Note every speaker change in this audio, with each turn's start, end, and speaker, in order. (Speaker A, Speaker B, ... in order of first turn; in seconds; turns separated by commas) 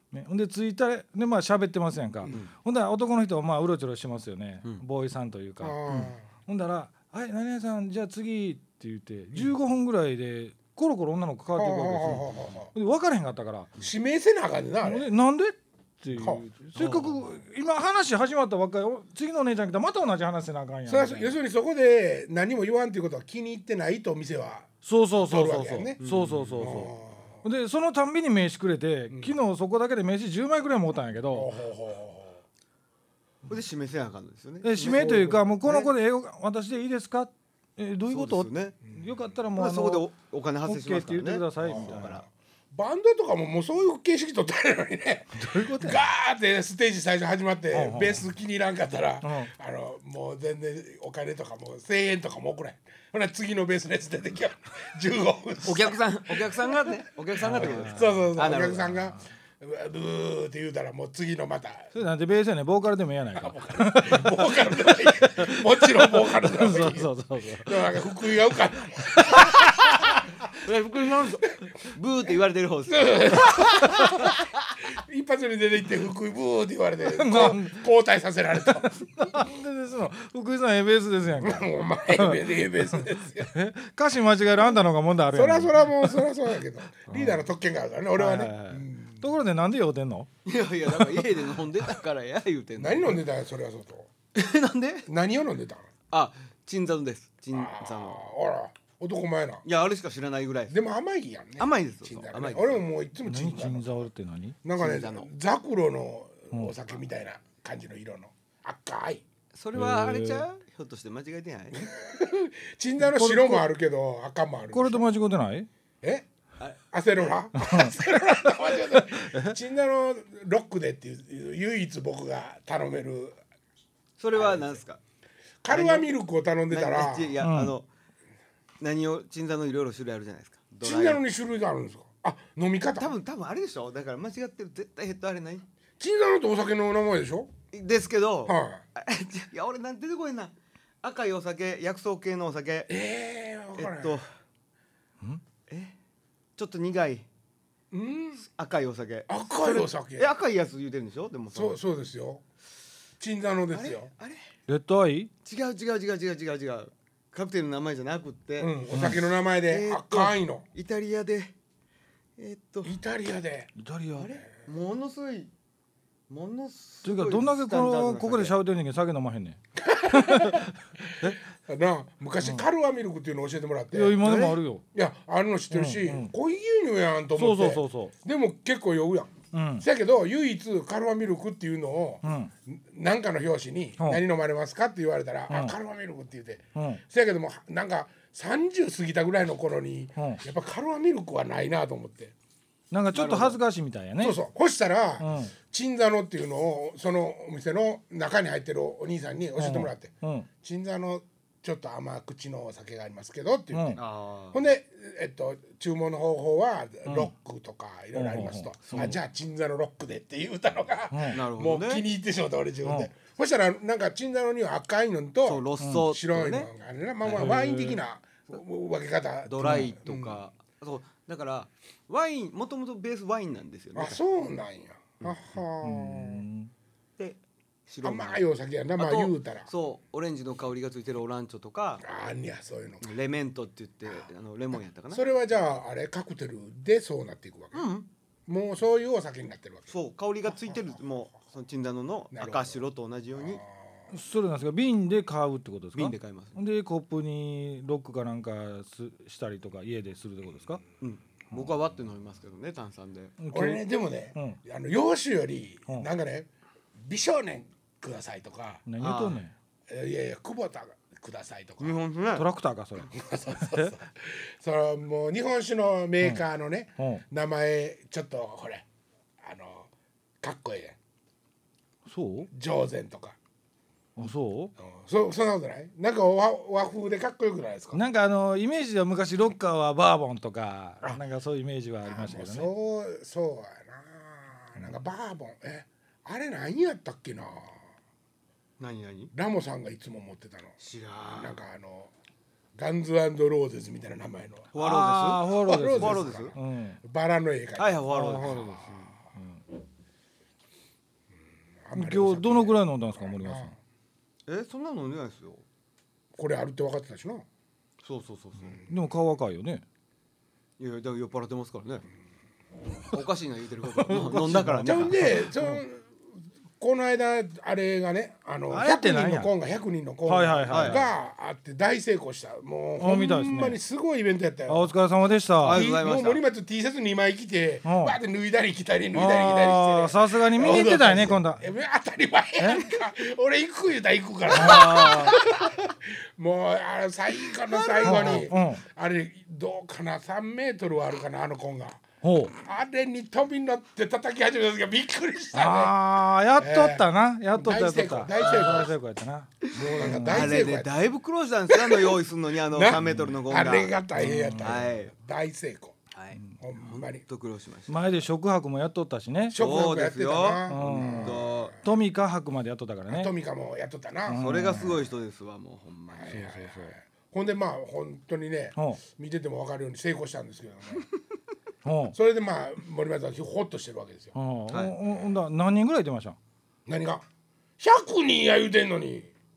Speaker A: 0.1-13.7, Speaker B: 5.6-6.2, Speaker B: 11.6-12.7, Speaker B: 13.8-15.1, Speaker A: 14.8-21.4, Speaker B: 16.2-16.4, Speaker C: 16.8-17.2, Speaker B: 20.9-24.7, Speaker A: 24.8-26.9, Speaker B: 25.2-26.0, Speaker C: 26.0-26.7, Speaker B: 26.6-27.4, Speaker A: 27.4-31.5, Speaker B: 31.3-32.4, Speaker C: 33.5-35.9, Speaker A: 34.6-40.1, Speaker B: 34.9-35.8, Speaker C: 38.1-38.8, Speaker C: 39.5-42.2, Speaker A: 40.6-42.2, Speaker B: 41.6-56.6, Speaker A: 45.4-46.0, Speaker A: 47.7-48.3, Speaker A: 49.2-49.5, Speaker C: 55.6-59.0, Speaker A: 57.4-58.2, Speaker B: 57.6-61.9, Speaker A: 62.0-67.9, Speaker B: 63.4-70.4, Speaker A: 69.3-69.8, Speaker C: 70.7-74.3, Speaker B: 70.9-71.7, Speaker B: 72.9-74.3, Speaker B: 74.9-78.9, Speaker A: 77.1-77.8, Speaker A: 78.7-86.3, Speaker B: 81.4-83.5, Speaker B: 85.3-89.2, Speaker A: 87.0-87.5, Speaker A: 88.2-90.3, Speaker C: 90.5-93.2, Speaker A: 91.0-91.3, Speaker B: 92.8-94.1, Speaker C: 94.3-95.1, Speaker B: 95.1-95.9, Speaker C: 96.1-98.2, Speaker B: 97.5-99.6, Speaker C: 99.6-100.7, Speaker B: 100.7-104.1, Speaker C: 101.6-102.8, Speaker A: 103.3-104.6, Speaker B: 104.6-109.2, Speaker C: 104.8-105.3, Speaker C: 109.5-111.9, Speaker A: 109.8-110.5, Speaker B: 111.8-115.1, Speaker A: 113.0-113.7, Speaker A: 114.7-115.7, Speaker C: 116.6-117.3, Speaker B: 116.9-123.4, Speaker A: 117.6-118.0, Speaker A: 118.7-119.5, Speaker C: 124.2-125.0, Speaker B: 124.3-124.8, Speaker B: 125.6-127.4, Speaker C: 125.7-126.1, Speaker C: 126.7-127.9, Speaker A: 127.4-127.7, Speaker C: 128.8-131.2, Speaker B: 130.8-133.1, Speaker C: 132.9-135.7, Speaker B: 136.0-137.5, Speaker C: 137.7-142.9, Speaker B: 138.5-138.8, Speaker B: 142.9-144.2, Speaker C: 143.8-144.2, Speaker C: 145.7-145.9, Speaker C: 146.6-147.3, Speaker B: 147.9-148.5, Speaker C: 148.4-151.8, Speaker B: 149.3-150.3, Speaker B: 151.5-152.4, Speaker B: 153.2-154.1, Speaker C: 153.7-154.5, Speaker A: 154.7-155.3, Speaker C: 155.4-158.8, Speaker B: 158.6-160.7, Speaker A: 158.9-159.2, Speaker C: 159.7-161.5, Speaker C: 162.4-163.0, Speaker B: 162.8-163.7, Speaker A: 163.8-164.3, Speaker C: 164.2-165.5, Speaker C: 166.3-168.6, Speaker A: 167.0-170.7, Speaker B: 169.8-174.2, Speaker A: 173.9-174.8, Speaker C: 174.2-174.6, Speaker B: 174.9-192.3, Speaker A: 175.7-176.3, Speaker A: 177.4-178.1, Speaker A: 179.5-179.8, Speaker A: 182.2-182.5, Speaker A: 185.5-185.8, Speaker A: 186.8-187.0, Speaker A: 192.9-194.4, Speaker C: 193.1-193.6, Speaker B: 194.2-220.4, Speaker A: 195.2-195.5, Speaker A: 199.6-200.5, Speaker A: 203.7-204.0, Speaker C: 204.0-204.6, Speaker A: 207.1-207.3, Speaker A: 208.2-209.2, Speaker C: 208.9-209.2, Speaker A: 211.1-211.4, Speaker C: 211.3-212.1, Speaker A: 212.8-213.1, Speaker C: 215.4-216.7, Speaker A: 215.8-216.1, Speaker C: 217.2-218.0, Speaker C: 219.5-224.2, Speaker A: 219.6-219.9, Speaker B: 223.9-226.4, Speaker A: 225.8-226.7, Speaker C: 227.2-228.4, Speaker B: 228.0-229.7, Speaker C: 229.0-232.0, Speaker B: 232.0-233.1, Speaker C: 233.0-235.3, Speaker B: 235.1-237.9, Speaker C: 237.7-238.1, Speaker B: 238.5-239.9, Speaker C: 239.9-243.6, Speaker B: 240.5-241.0, Speaker B: 242.3-242.8, Speaker B: 243.4-244.1, Speaker A: 244.1-250.8, Speaker C: 245.9-246.6, Speaker C: 251.0-253.4, Speaker A: 253.4-254.6, Speaker B: 253.5-256.5, Speaker B: 257.0-258.8, Speaker A: 258.9-259.5, Speaker C: 259.0-259.4, Speaker B: 259.9-262.0, Speaker C: 261.8-262.5, Speaker A: 262.4-263.9, Speaker B: 263.0-268.8, Speaker A: 267.0-267.2, Speaker B: 269.4-269.9, Speaker B: 270.4-271.0, Speaker A: 272.1-272.5, Speaker B: 272.5-273.4, Speaker A: 274.2-274.7, Speaker B: 274.8-278.0, Speaker A: 277.9-282.7, Speaker B: 282.1-287.8, Speaker C: 288.8-289.3, Speaker B: 289.3-290.8, Speaker C: 290.8-291.6, Speaker B: 291.4-292.1, Speaker B: 292.8-294.7, Speaker C: 294.7-296.5, Speaker A: 294.8-297.0, Speaker B: 295.6-298.8, Speaker C: 297.8-299.1, Speaker A: 298.1-298.8, Speaker A: 299.4-299.6, Speaker B: 301.9-303.8, Speaker A: 301.9-303.7, Speaker C: 304.5-305.6, Speaker B: 306.4-307.4, Speaker C: 308.0-308.8, Speaker A: 308.9-309.8, Speaker C: 310.8-312.1, Speaker C: 313.1-315.4, Speaker A: 313.8-315.8, Speaker B: 314.9-316.1, Speaker B: 316.8-324.9, Speaker A: 318.7-319.5, Speaker A: 320.3-321.1, Speaker C: 320.7-321.1, Speaker A: 323.0-323.8, Speaker A: 324.7-325.8, Speaker C: 325.6-326.4, Speaker B: 325.7-345.9, Speaker A: 327.9-328.2, Speaker A: 329.1-331.6, Speaker C: 334.5-335.5, Speaker A: 334.6-335.3, Speaker C: 337.4-338.5, Speaker A: 338.0-338.8, Speaker A: 342.2-342.5, Speaker A: 345.5-350.5, Speaker B: 346.6-347.0, Speaker B: 347.6-348.9, Speaker B: 349.7-351.0, Speaker C: 350.0-354.0, Speaker B: 351.7-352.1, Speaker B: 352.7-356.0, Speaker A: 353.0-353.4, Speaker A: 354.2-354.8, Speaker C: 354.6-355.1, Speaker C: 356.1-358.1, Speaker B: 356.6-357.2, Speaker A: 357.9-359.6, Speaker B: 359.5-361.8, Speaker C: 359.5-361.8, Speaker A: 360.7-363.3, Speaker B: 363.1-365.0, Speaker A: 364.3-365.0, Speaker C: 364.3-366.5, Speaker B: 366.1-371.1, Speaker A: 366.3-366.9, Speaker A: 368.8-369.0, Speaker A: 371.9-372.2, Speaker B: 372.1-374.3, Speaker A: 374.4-376.4, Speaker C: 374.7-374.9, Speaker B: 376.9-377.2, Speaker B: 377.8-379.3